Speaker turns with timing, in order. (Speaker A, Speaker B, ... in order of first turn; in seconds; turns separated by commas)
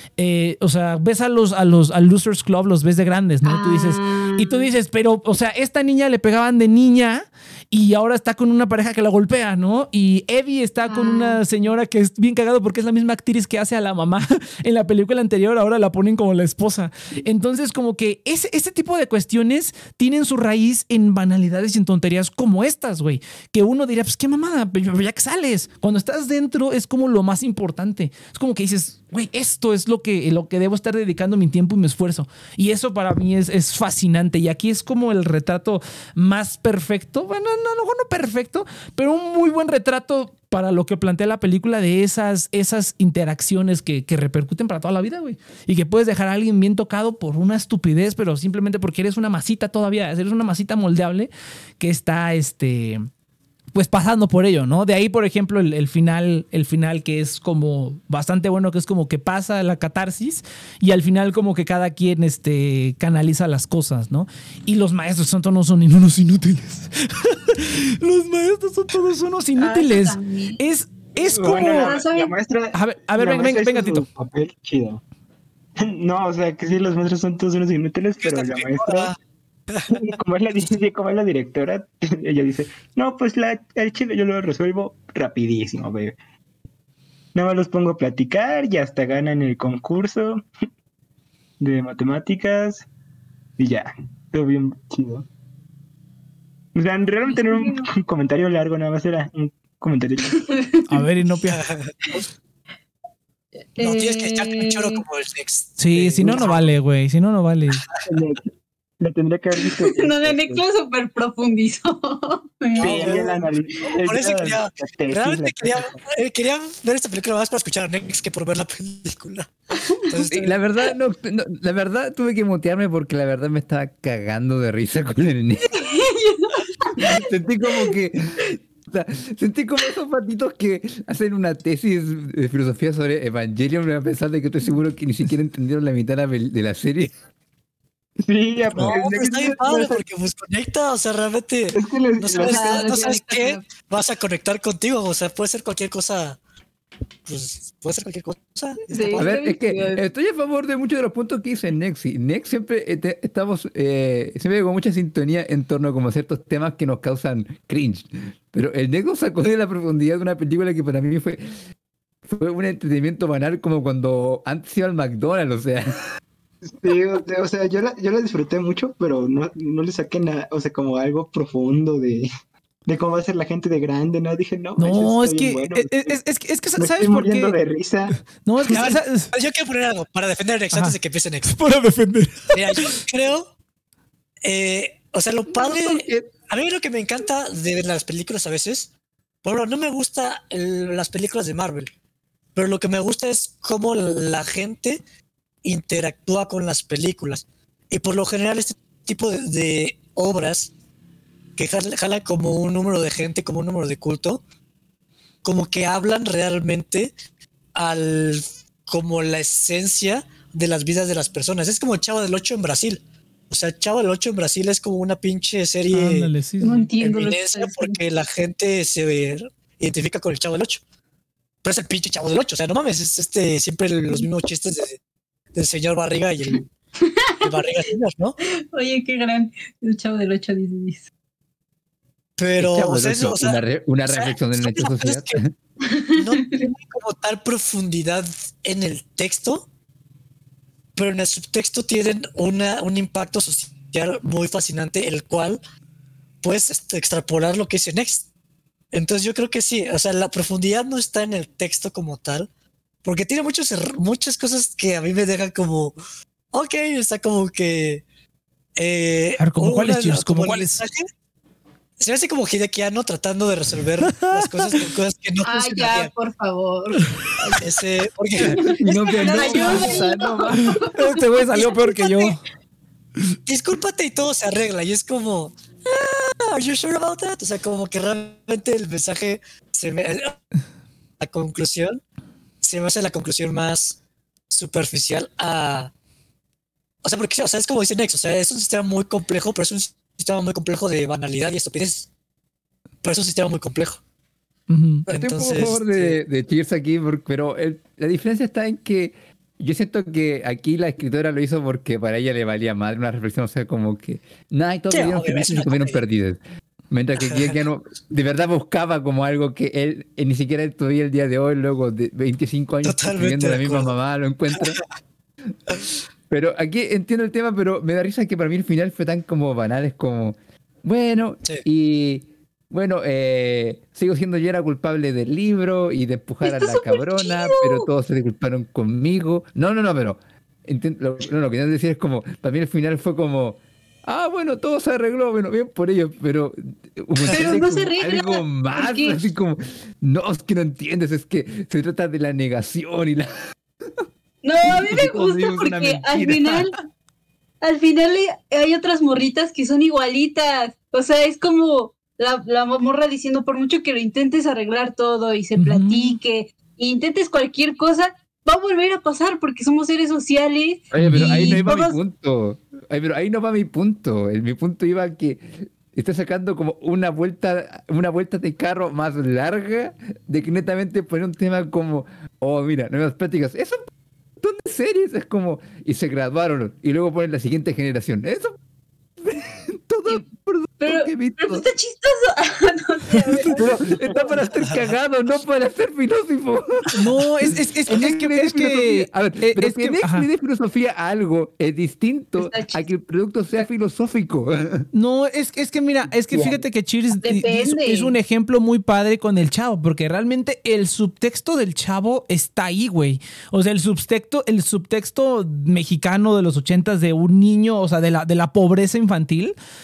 Speaker A: 0.2-53.1, Speaker B: 3.4-4.7, Speaker B: 10.8-11.4, Speaker A: 53.7-72.0, Speaker B: 69.6-70.6, Speaker C: 71.2-75.0, Speaker B: 71.4-72.3, Speaker A: 72.7-74.0, Speaker C: 75.8-79.1, Speaker D: 78.2-79.2, Speaker D: 79.7-80.1, Speaker C: 79.9-86.2, Speaker C: 87.3-90.4, Speaker C: 91.6-92.9, Speaker C: 93.6-95.2, Speaker C: 96.7-100.4, Speaker B: 97.3-97.6, Speaker B: 100.6-100.8, Speaker A: 100.9-101.6, Speaker D: 101.5-101.9, Speaker B: 103.8-105.0, Speaker D: 103.8-106.7, Speaker A: 105.8-107.8, Speaker C: 106.2-106.5, Speaker C: 108.0-110.6, Speaker B: 109.7-113.5, Speaker C: 112.8-115.9, Speaker D: 112.8-113.3, Speaker D: 113.9-119.5, Speaker B: 119.8-120.2, Speaker D: 120.0-120.6, Speaker E: 120.3-125.8, Speaker B: 125.7-127.3, Speaker E: 127.0-137.1, Speaker C: 138.2-140.0, Speaker D: 138.7-146.4, Speaker C: 141.7-143.1, Speaker B: 142.4-143.6, Speaker D: 147.2-149.3, Speaker B: 148.9-150.0, Speaker E: 149.2-161.5, Speaker E: 162.2-165.9, Speaker C: 166.8-172.3, Speaker C: 172.9-176.2, Speaker A: 174.8-177.6, Speaker C: 176.8-178.2, Speaker A: 178.4-179.3, Speaker D: 178.7-181.6, Speaker A: 180.7-182.9, Speaker D: 182.5-183.5, Speaker D: 184.4-188.9, Speaker E: 185.5-186.3, Speaker D: 189.4-191.9, Speaker D: 192.5-195.0, Speaker D: 195.6-200.7, Speaker D: 201.6-204.4, Speaker D: 205.4-207.1, Speaker D: 207.7-216.3, Speaker A: 215.9-216.9, Speaker B: 216.6-217.9, Speaker D: 217.0-220.8, Speaker D: 221.6-225.0, Speaker D: 225.5-226.7, Speaker B: 227.0-227.5, Speaker D: 227.4-228.4, Speaker B: 228.7-231.1, Speaker D: 232.4-235.4, Speaker E: 232.6-235.5, Speaker B: 235.8-236.6, Speaker D: 236.2-239.7, Speaker D: 240.9-245.6, Speaker D: 246.4-248.3, Speaker D: 248.9-252.5, Speaker D: 253.0-256.0, Speaker D: 256.5-258.0, Speaker D: 258.8-261.1, Speaker A: 259.4-260.8, Speaker D: 262.0-266.1, Speaker A: 264.0-264.9, Speaker B: 265.4-267.5, Speaker D: 267.6-270.1, Speaker B: 268.4-272.3, Speaker E: 268.5-270.8, Speaker A: 270.6-272.4, Speaker D: 273.4-280.4, Speaker D: 281.2-282.0, Speaker D: 282.6-284.0, Speaker D: 284.5-285.9, Speaker D: 287.0-292.1, Speaker D: 293.0-294.0, Speaker A: 294.7-295.0, Speaker D: 295.1-296.2, Speaker E: 295.1-314.8, Speaker D: 304.9-306.0, Speaker D: 307.2-307.5, Speaker D: 312.8-313.9, Speaker E: 316.3-343.3, Speaker B: 326.4-327.9, Speaker D: 337.2-337.6, Speaker B: 337.3-339.2, Speaker B: 344.4-346.8, Speaker E: 344.6-346.7, Speaker B: 347.6-362.0, Speaker A: 355.6-356.2, Speaker E: 360.9-373.8, Speaker A: 361.0-361.7, Speaker E: 374.4-378.6, Speaker E: 379.2-381.6, Speaker B: 380.8-384.4, Speaker A: 383.2-383.6, Speaker E: 383.5-386.9, Speaker A: 386.9-390.3, Speaker E: 387.9-394.9, Speaker B: 392.4-392.8, Speaker A: 394.9-409.5, Speaker B: 397.2-398.1